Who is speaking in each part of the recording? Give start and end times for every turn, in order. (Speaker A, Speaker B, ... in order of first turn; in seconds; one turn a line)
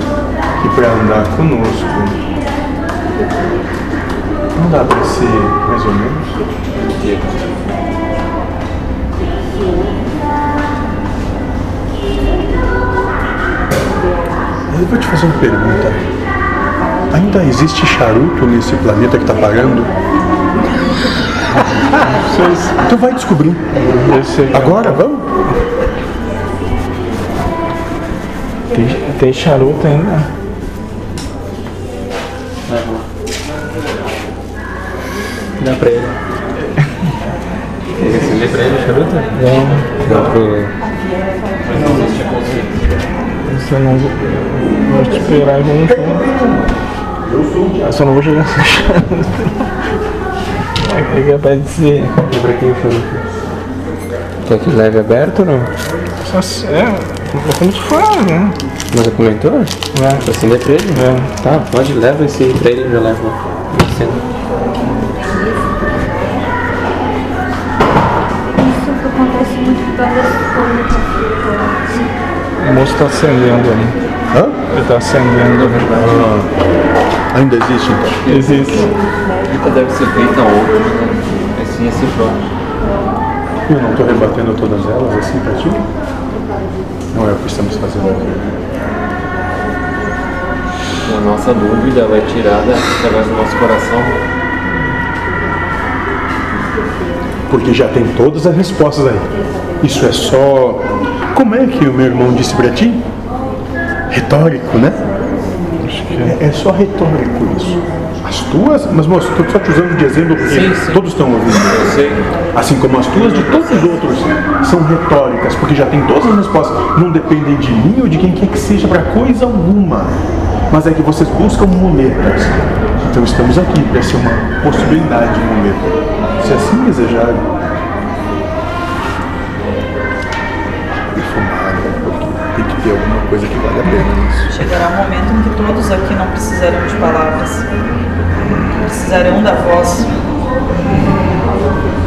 Speaker A: 0.6-2.2
Speaker A: 4.5-6.4
Speaker B: 6.8-7.6
Speaker A: 14.7-16.0
Speaker A: 17.1-19.9
Speaker A: 21.6-23.8
Speaker C: 22.3-22.6
Speaker C: 23.8-25.0
Speaker A: 24.5-25.3
Speaker C: 28.7-30.3
Speaker D: 32.7-33.1
Speaker D: 35.6-36.2
Speaker D: 38.0-40.7
Speaker C: 39.3-40.0
Speaker B: 41.6-42.9
Speaker C: 43.5-46.3
Speaker A: 45.9-47.9
Speaker C: 47.8-49.6
Speaker C: 50.8-52.3
Speaker D: 52.3-53.2
Speaker D: 54.5-55.7
Speaker C: 56.2-58.6
Speaker D: 58.9-64.2
Speaker C: 59.9-60.3
Speaker C: 60.9-61.4
Speaker E: 68.6-71.2
Speaker C: 72.6-74.0
Speaker A: 74.3-74.6
Speaker C: 74.7-75.9
Speaker B: 75.5-76.2
Speaker A: 75.9-76.5
Speaker A: 77.3-78.2
Speaker B: 78.2-78.9
Speaker C: 78.3-78.9
Speaker B: 79.4-82.4
Speaker A: 83.7-85.8
Speaker A: 87.1-88.5
Speaker B: 91.0-94.2
Speaker A: 97.5-103.0
Speaker A: 104.1-105.1
Speaker C: 105.8-106.4
Speaker A: 106.2-112.0
Speaker B: 110.5-112.2
Speaker A: 112.5-120.2
Speaker B: 113.1-114.1
Speaker A: 120.7-127.5
Speaker A: 131.1-134.7
Speaker F: 134.5-137.7
Speaker F: 138.7-140.1